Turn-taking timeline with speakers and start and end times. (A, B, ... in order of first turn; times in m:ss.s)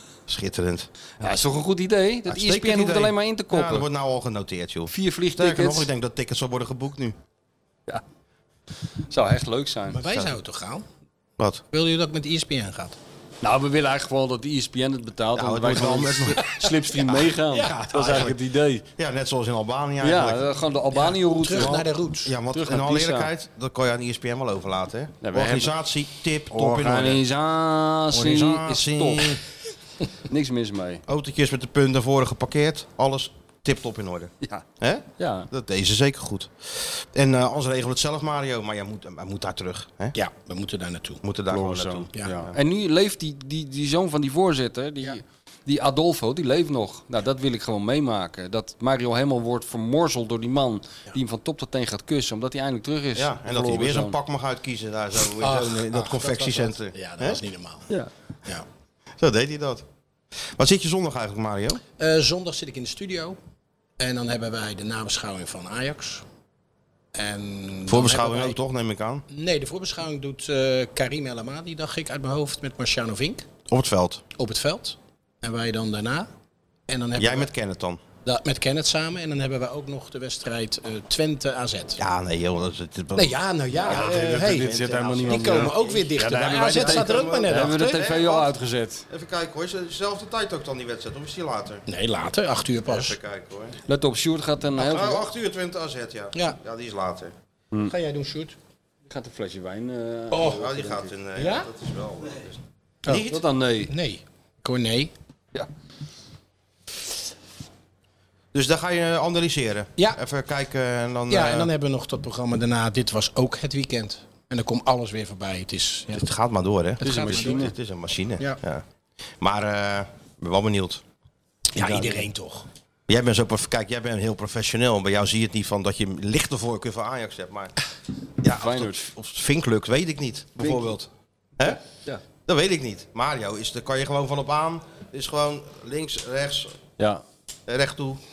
0:00.3-0:00.9 A
0:01.2-0:03.9 B
0:02.3-0:07.2 A
0:04.9-0:05.9 B
0:09.1-0:10.0 B
0:09.9-0:10.8 C
0:10.1-0:10.3 A
0:11.7-0:13.0 C
0:13.4-0:18.8 B
0:15.3-0:16.5 A
0:17.5-0:18.3 C
0:18.0-0:18.3 A
0:19.0-0:20.5 A
0:20.0-0:21.8 B
0:20.9-0:22.4 C
0:21.5-0:27.2 A
0:22.5-0:23.3 B
0:25.2-0:25.7 B
0:26.5-0:29.4 B
0:28.1-0:29.4 A
0:30.3-0:31.0 B
0:31.1-0:40.1 A
0:35.2-0:35.5 B
0:40.1-0:41.2 C
0:41.2-0:42.6 A
0:41.5-0:54.2 B
0:53.1-0:57.4 A
0:55.4-0:57.9 C
0:59.2-0:59.8 A
1:00.6-1:01.8 A
1:02.0-1:03.4 C
1:04.0-1:06.2 C
1:07.1-1:08.6 C
1:07.9-1:09.2 A
1:09.3-1:13.5 C
1:13.7-1:14.2 A
1:14.3-1:16.3 C
1:16.9-1:17.5 C
1:17.2-1:18.0 A
1:18.2-1:22.0 C
1:22.0-1:28.5 A
1:23.1-1:28.0 C
1:23.8-1:29.0 B
1:29.1-1:31.8 A
1:31.9-1:33.1 C
1:32.8-1:33.8 A
1:33.9-1:35.3 B
1:34.8-1:37.3 A
1:37.9-1:38.6 C
1:39.1-1:41.1 B
1:40.3-1:40.6 C
1:40.4-1:43.4 A
1:41.3-1:41.7 C
1:43.2-1:43.9 B
1:43.9-1:45.1 C
1:48.5-1:51.7 A
1:51.3-1:56.2 C
1:56.1-1:58.8 A
1:57.0-1:57.7 C
1:57.0-1:57.7 B
1:59.4-2:01.0 A
2:01.7-2:02.7 C
2:01.9-2:02.2 B
2:03.1-2:07.7 A
2:08.4-2:11.8 A
2:08.4-2:09.1 B
2:12.4-2:16.8 A
2:17.0-2:17.2 B
2:17.7-2:18.2 A